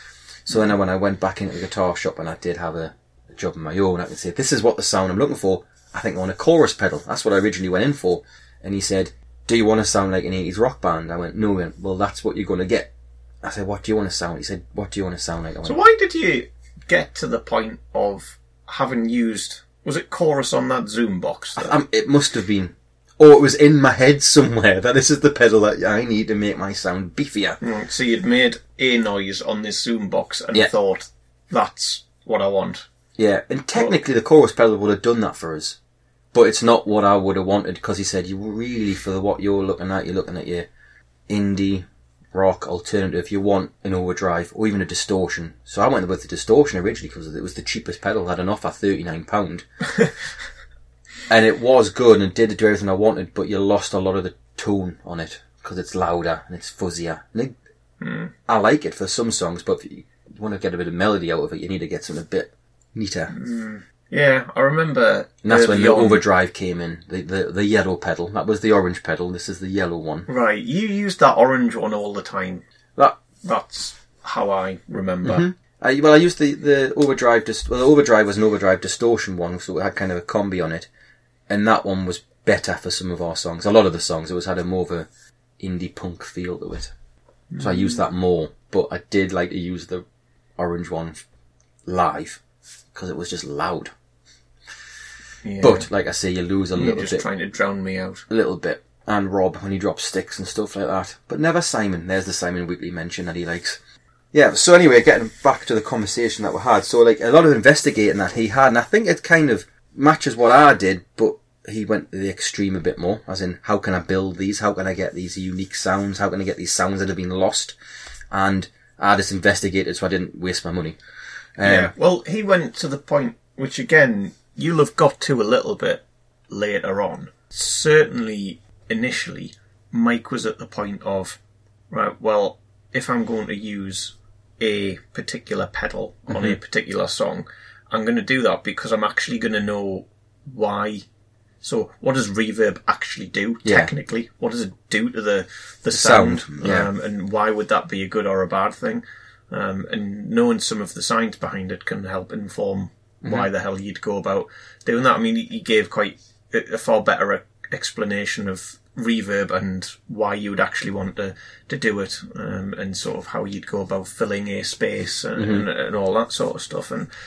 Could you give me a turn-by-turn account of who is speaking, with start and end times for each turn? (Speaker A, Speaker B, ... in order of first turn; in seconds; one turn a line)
Speaker A: 0.5-12.9
Speaker A: 13.4-15.8
Speaker B: 15.6-21.7
Speaker A: 21.6-27.6
Speaker B: 27.6-32.8
Speaker A: 33.2-35.8
Speaker A: 36.3-40.7
Speaker A: 41.3-49.6
Speaker A: 51.3-57.5
Speaker B: 58.0-58.3
Speaker A: 58.5-63.3
Speaker B: 63.3-66.2
Speaker A: 65.4-70.3
Speaker B: 70.3-72.6
Speaker B: 73.4-75.5
Speaker A: 75.2-80.9
Speaker A: 81.5-85.1
Speaker A: 85.6-86.9
Speaker B: 87.5-87.9
Speaker A: 87.6-90.0
Speaker A: 90.6-91.2
Speaker A: 91.8-92.4
Speaker A: 92.9-93.9
Speaker B: 95.4-95.8
Speaker A: 95.6-97.2
Speaker B: 96.8-98.2
Speaker A: 98.3-103.8
Speaker A: 104.3-117.8
Speaker A: 118.3-121.0
Speaker A: 121.6-121.9
Speaker B: 121.6-131.4
Speaker B: 131.9-141.1
Speaker B: 141.6-167.1
Speaker A: 143.6-143.9
Speaker A: 145.9-146.9
Speaker A: 153.2-153.5
Speaker A: 165.4-165.7